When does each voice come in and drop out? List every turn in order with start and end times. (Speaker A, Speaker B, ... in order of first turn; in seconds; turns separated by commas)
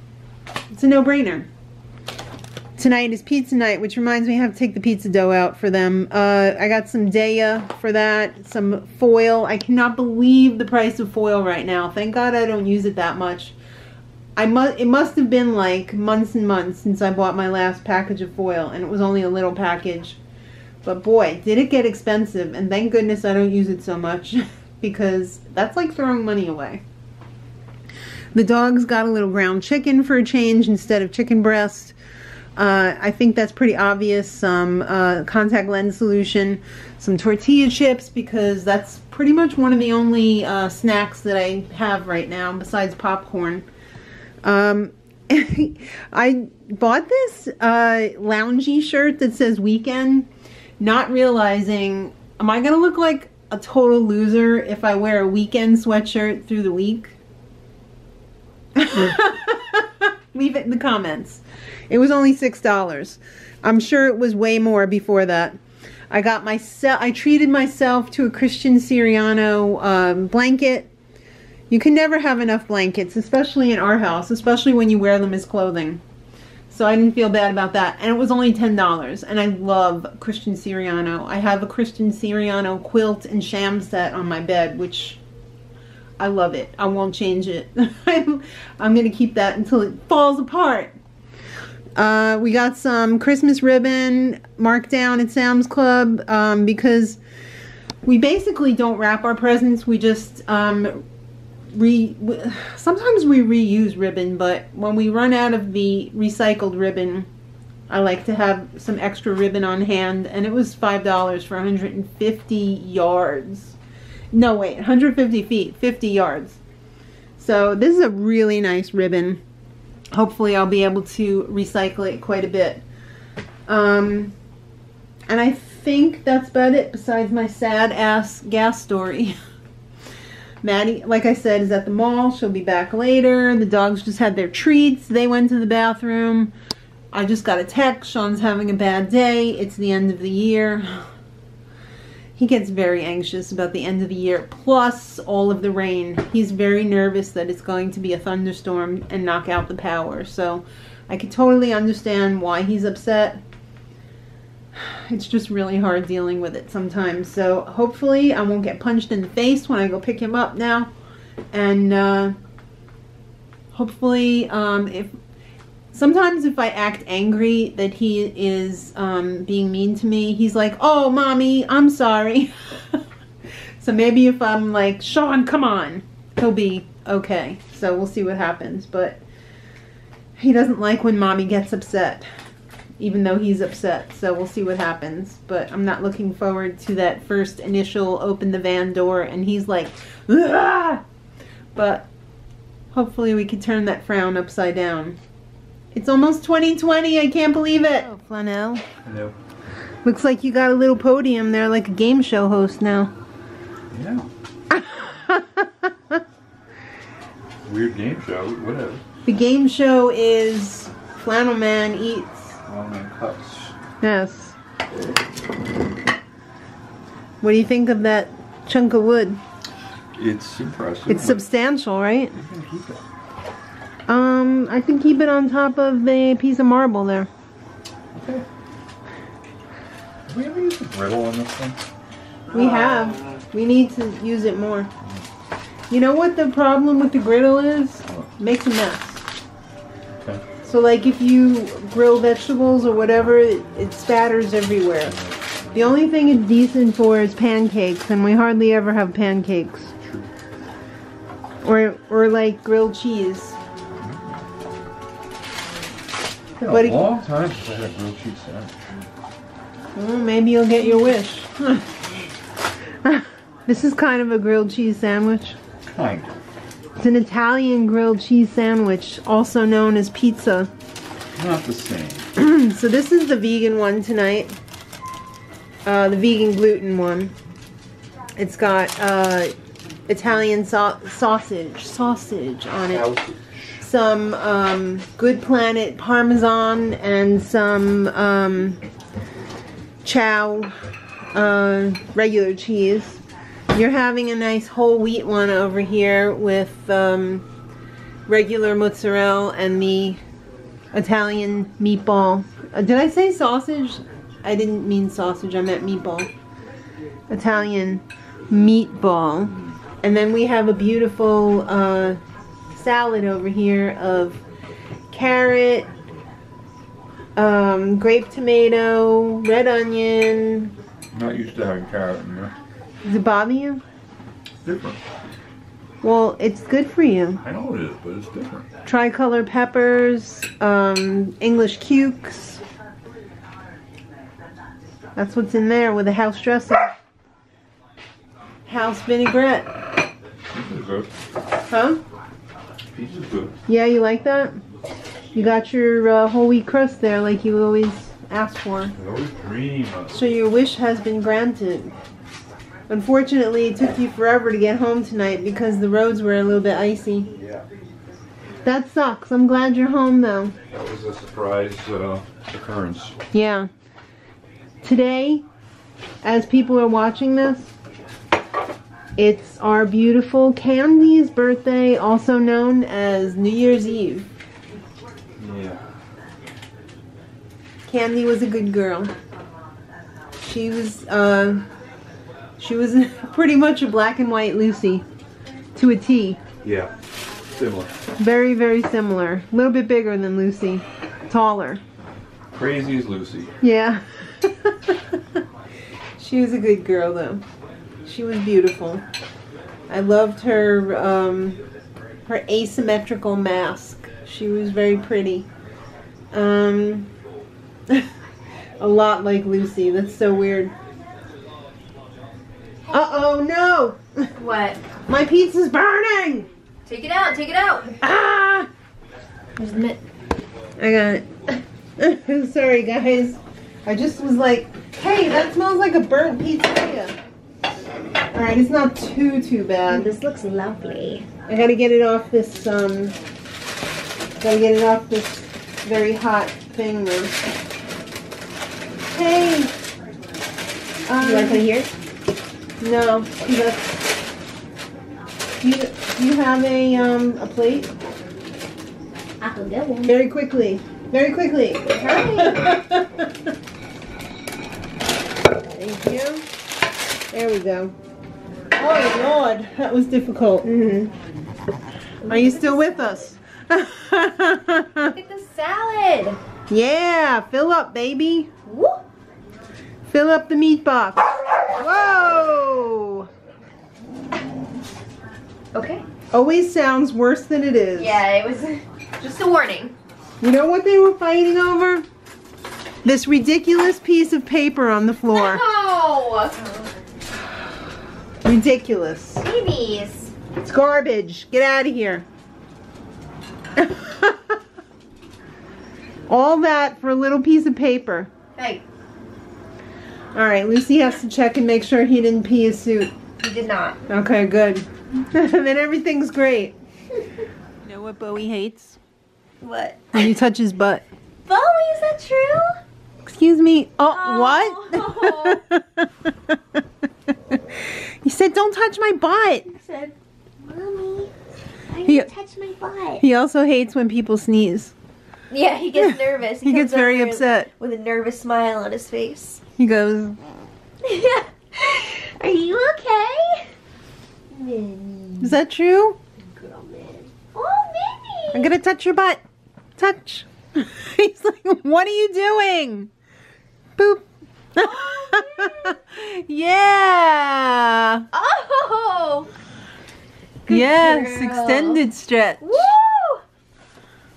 Speaker A: 0.7-1.5, Speaker A: 2.8-13.6, Speaker A: 14.4-20.2, Speaker A: 20.8-26.8, Speaker A: 28.3-32.0, Speaker A: 32.6-43.7, Speaker A: 44.4-50.3, Speaker A: 50.8-57.2, Speaker A: 58.8-65.6, Speaker A: 66.1-70.9, Speaker A: 71.7-76.0, Speaker A: 76.7-85.2, Speaker A: 86.2-91.0, Speaker A: 92.0-97.2, Speaker A: 98.0-101.0, Speaker A: 101.7-107.3, Speaker A: 107.9-113.8, Speaker A: 114.3-116.6, Speaker A: 117.4-119.4, Speaker A: 120.1-122.8, Speaker A: 123.7-124.3, Speaker A: 125.3-129.3, Speaker A: 130.6-136.5, Speaker A: 137.1-141.1, Speaker A: 142.3-153.4, Speaker A: 154.7-160.9, Speaker A: 161.5-162.3, Speaker A: 163.7-165.1, Speaker A: 165.9-173.0, Speaker A: 173.8-179.2, Speaker A: 180.4-182.3, Speaker A: 183.0-191.0, Speaker A: 191.8-192.1, Speaker A: 192.9-195.2, Speaker A: 195.9-198.8, Speaker B: 199.0-199.3, Speaker A: 200.1-203.1, Speaker B: 203.9-204.3, Speaker A: 204.7-206.2, Speaker B: 207.7-209.0, Speaker A: 209.3-212.6, Speaker B: 212.7-213.7, Speaker A: 214.0-214.6, Speaker A: 217.4-219.4, Speaker B: 220.2-221.4, Speaker A: 221.1-222.4, Speaker B: 222.4-223.0, Speaker A: 224.1-227.3, Speaker B: 228.1-228.4, Speaker B: 230.3-231.8, Speaker A: 232.5-234.9, Speaker B: 232.5-233.1, Speaker A: 235.9-239.2, Speaker A: 240.6-245.2, Speaker A: 245.7-249.9, Speaker B: 250.0-250.3, Speaker A: 251.6-253.6, Speaker B: 254.0-254.3, Speaker B: 256.6-258.9, Speaker A: 256.7-257.1, Speaker A: 259.9-262.0, Speaker A: 263.0-265.6, Speaker B: 265.9-266.3, Speaker A: 267.0-270.7, Speaker B: 271.4-272.3, Speaker A: 272.4-274.6, Speaker A: 275.9-277.3, Speaker A: 278.4-279.5, Speaker A: 280.1-283.1, Speaker B: 282.9-283.8, Speaker A: 283.8-288.8, Speaker A: 290.0-290.7, Speaker A: 291.3-293.2, Speaker A: 293.7-297.5, Speaker A: 298.3-300.2, Speaker A: 300.9-306.3, Speaker A: 307.3-312.2, Speaker A: 312.7-314.4, Speaker A: 315.1-315.9, Speaker A: 317.4-320.8, Speaker B: 321.1-322.6, Speaker A: 323.1-323.8, Speaker B: 324.6-325.0, Speaker A: 326.0-327.4, Speaker B: 327.4-328.7, Speaker A: 328.9-332.6, Speaker A: 335.2-336.9, Speaker A: 338.6-339.7, Speaker B: 340.5-341.1, Speaker A: 341.7-342.0, Speaker B: 342.9-343.6, Speaker A: 343.7-344.6, Speaker A: 345.3-348.9, Speaker B: 349.0-350.1, Speaker A: 350.1-351.9, Speaker A: 352.9-357.3, Speaker B: 357.4-357.6, Speaker A: 358.6-360.6, Speaker B: 360.7-363.2, Speaker A: 363.3-363.7, Speaker A: 364.8-365.4, Speaker A: 366.2-367.7, Speaker A: 369.2-374.3, Speaker B: 375.4-375.8, Speaker A: 377.9-379.1, Speaker A: 380.4-381.7, Speaker A: 382.6-385.1, Speaker A: 385.8-386.4, Speaker B: 386.6-386.9, Speaker B: 387.6-387.9, Speaker A: 388.2-391.8, Speaker B: 392.5-393.5, Speaker A: 393.6-395.4, Speaker A: 396.2-397.4, Speaker A: 398.1-399.0, Speaker A: 399.9-401.6, Speaker A: 402.3-405.5, Speaker A: 406.3-407.1, Speaker A: 408.8-410.7, Speaker A: 412.9-414.3, Speaker C: 414.4-414.8, Speaker A: 415.1-416.5, Speaker C: 416.9-418.0, Speaker A: 418.0-418.7, Speaker A: 419.6-420.0, Speaker A: 420.8-427.2, Speaker A: 428.3-430.1, Speaker C: 429.9-431.3, Speaker A: 431.5-433.2, Speaker A: 434.4-437.4, Speaker A: 439.1-439.7, Speaker A: 441.1-441.7, Speaker C: 441.2-441.9, Speaker A: 442.8-444.0, Speaker A: 445.6-447.9, Speaker C: 449.4-450.1, Speaker A: 450.1-453.5, Speaker C: 451.9-452.7, Speaker A: 455.6-456.5, Speaker A: 457.3-457.9, Speaker A: 458.8-460.7, Speaker C: 460.6-461.1, Speaker C: 462.2-463.3, Speaker A: 462.3-465.1, Speaker C: 465.1-466.4, Speaker A: 466.7-468.5, Speaker C: 468.7-469.0, Speaker A: 470.1-473.3, Speaker C: 475.7-476.0, Speaker A: 476.3-478.2, Speaker C: 478.0-479.9, Speaker A: 480.4-482.1, Speaker A: 483.0-485.6, Speaker C: 485.3-486.9, Speaker A: 488.4-489.4, Speaker C: 489.4-490.3, Speaker A: 490.6-492.3, Speaker A: 493.8-494.6, Speaker A: 496.3-498.3, Speaker C: 498.6-498.8, Speaker A: 500.4-503.1, Speaker C: 503.4-504.1, Speaker A: 504.1-506.8, Speaker A: 507.8-509.0, Speaker C: 509.6-510.2, Speaker A: 510.1-511.0, Speaker C: 511.5-512.8, Speaker A: 513.2-516.8, Speaker C: 514.1-515.6, Speaker A: 517.5-519.7, Speaker C: 519.7-521.3, Speaker C: 521.9-523.2, Speaker A: 523.2-525.0, Speaker C: 525.5-529.6, Speaker A: 526.0-527.7, Speaker A: 529.8-530.4, Speaker C: 531.0-533.7, Speaker C: 534.5-535.6, Speaker A: 535.4-536.2, Speaker C: 536.5-538.7, Speaker A: 538.5-539.4, Speaker A: 540.0-543.1, Speaker A: 544.0-548.3, Speaker C: 544.8-546.0, Speaker C: 548.3-549.5, Speaker C: 550.7-552.0, Speaker A: 550.7-552.9, Speaker C: 552.6-553.4